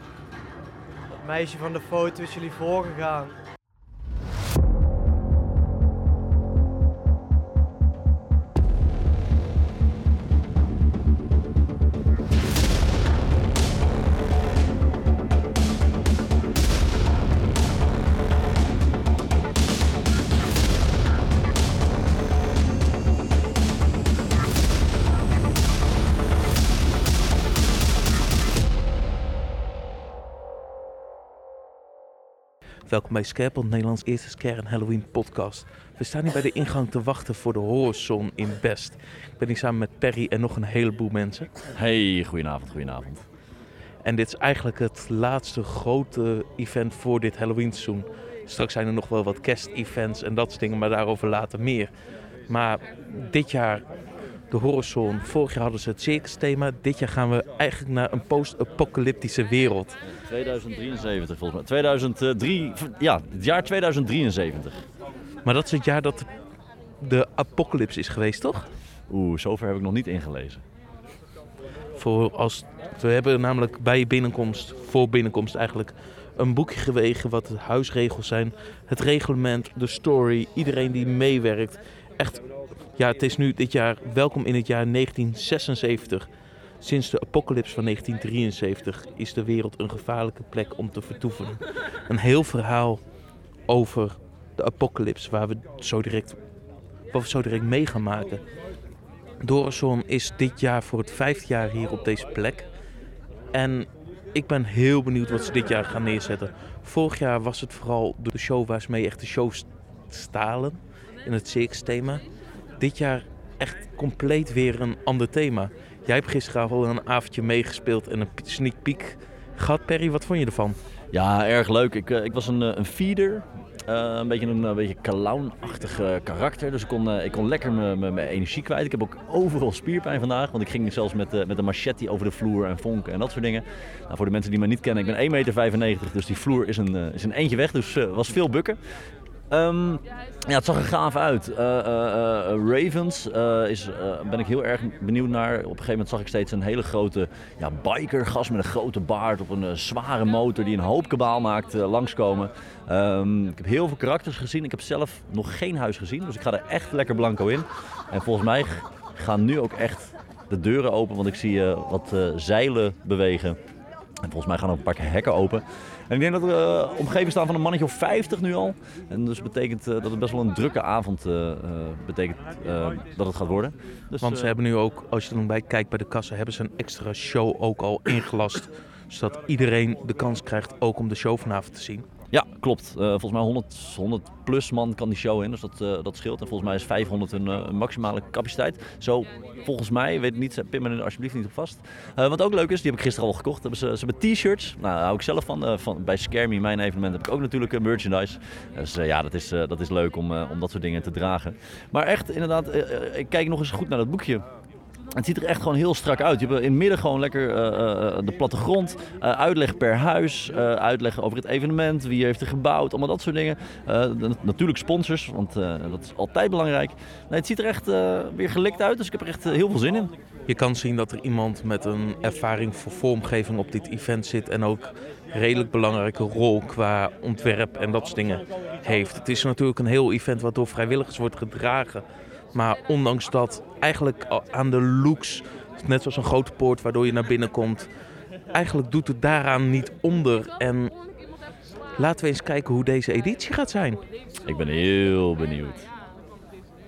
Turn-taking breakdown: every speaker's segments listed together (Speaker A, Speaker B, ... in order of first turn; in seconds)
Speaker A: 1.1-3.4
Speaker B: 32.9-41.5, 44.0-51.9, 52.5-53.9, 54.5-60.0, 65.4-66.3, 67.0-68.7, 72.0-86.3, 86.8-93.0, 93.7-96.4, 97.1-98.4, 99.4-102.7, 103.5-112.2, 112.8-120.8, 174.2-182.1, 220.5-237.9, 238.5-241.0, 242.0-244.0
Speaker C: 41.7-43.2, 60.0-64.8, 69.1-70.6, 121.1-138.8, 139.5-163.6, 164.2-174.5, 182.3-204.4, 205.1-220.1, 244.4-245.9